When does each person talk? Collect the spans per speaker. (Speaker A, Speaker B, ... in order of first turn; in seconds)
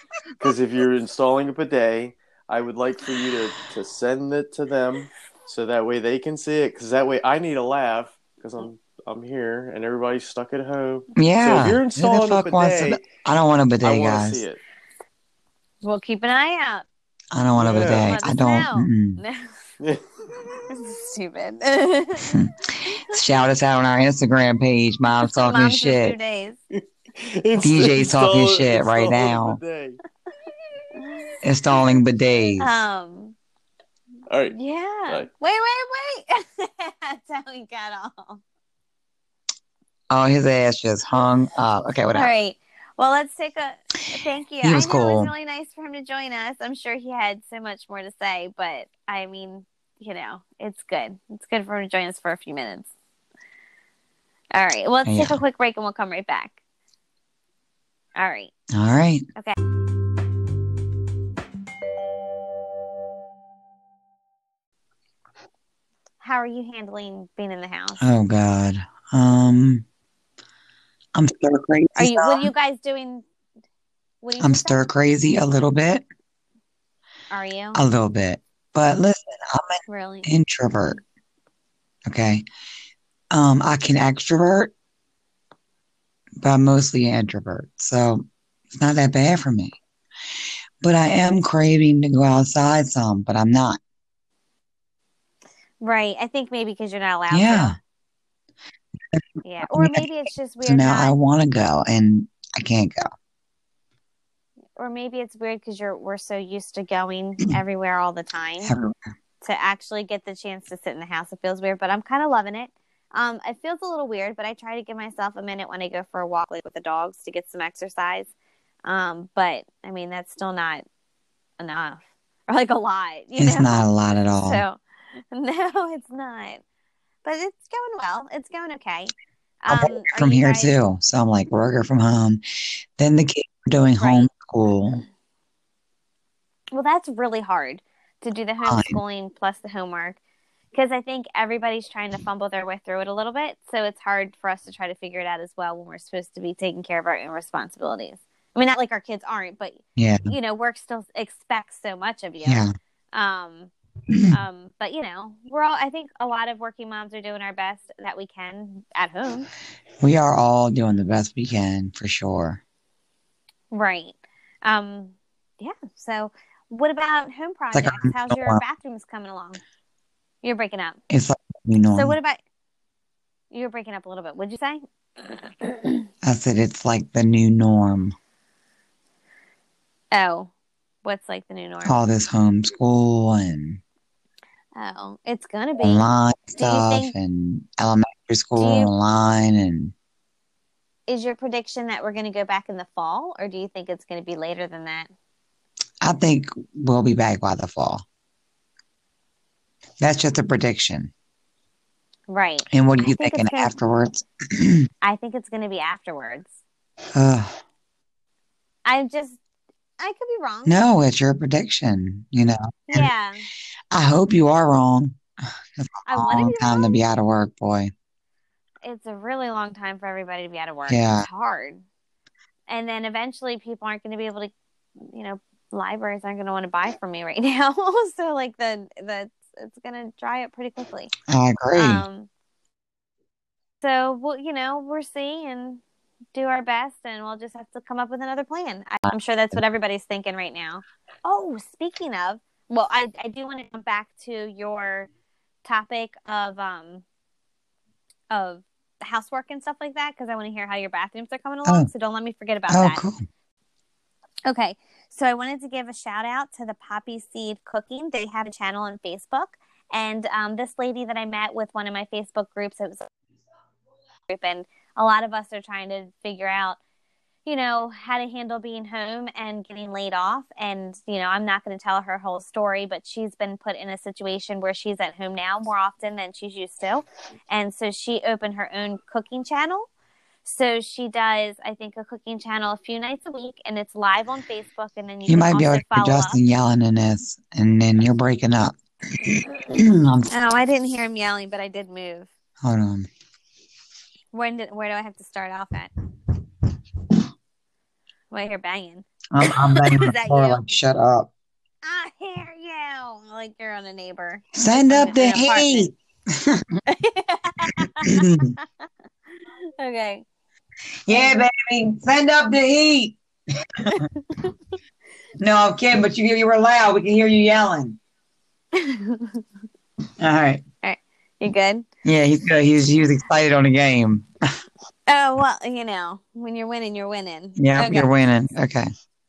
Speaker A: 0.4-13.1, 13.8-14.6, 17.5-18.1, 19.8-20.6, 26.7-30.0, 34.3-34.5
Speaker B: 11.2-14.4, 17.3-19.2, 22.3-26.2, 27.6-29.6, 31.4-32.8, 40.1-42.3, 44.6-45.3, 55.0-55.4, 58.7-59.2, 68.0-69.8, 71.1-72.5, 74.4-76.0, 77.7-81.0, 82.0-82.4, 83.3-84.7, 86.4-89.8, 90.8-93.8, 97.3-97.8, 99.1-100.1, 100.6-103.1, 108.6-109.0, 123.4-124.6, 129.7-132.4, 133.0-135.0, 138.6-139.0, 150.0-150.3, 152.4-152.7, 160.0-162.6, 167.7-168.6, 171.1-172.2, 176.2-178.1, 181.8-183.8, 185.8-189.9, 196.0-198.0, 200.0-201.1, 202.7-204.9, 207.1-207.6, 210.7-213.1, 213.9-215.2, 215.8-217.9, 220.9-221.3, 231.3-232.1, 252.7-253.2, 285.2-290.3, 292.6-293.1, 299.3-301.3, 304.5-306.8, 307.8-308.5, 311.1-313.1, 313.8-314.1, 315.4-318.0, 320.2-320.6, 322.0-324.3, 327.6-328.9
Speaker C: 15.8-16.9, 17.9-19.5, 20.7-23.1, 25.4-26.6, 32.6-33.3, 34.5-38.4, 42.1-52.9, 54.5-56.5, 58.1-58.5, 66.2-68.0, 72.0-73.2, 74.2-74.8, 77.3-77.8, 79.9-80.3, 95.8-97.8, 99.4-101.1, 104.8-108.7, 109.4-118.3, 118.8-120.8, 121.6-124.8, 125.3-126.6, 127.2-130.7, 134.0-134.3, 136.7-140.2, 140.7-159.5, 163.7-169.6, 170.4-171.0, 171.9-172.4, 173.5-176.0, 180.1-180.5, 181.0-182.0, 184.7-186.0, 186.6-187.1, 188.6-188.9, 191.1-195.1, 202.3-203.7, 205.0-206.5, 208.8-209.4, 210.0-210.8, 212.9-213.4, 216.1-217.0, 218.8-221.8, 222.7-231.1, 231.7-232.3, 233.8-235.8, 236.3-245.1, 245.6-247.0, 248.3-253.0, 254.4-263.1, 264.3-266.8, 267.4-279.9, 280.4-286.4, 290.3-292.3, 294.3-295.9, 298.3-300.6, 301.8-305.9, 306.9-308.6, 309.8-310.2, 311.1-311.4, 313.9-314.5, 318.7-319.4, 320.8-321.9, 325.1-328.1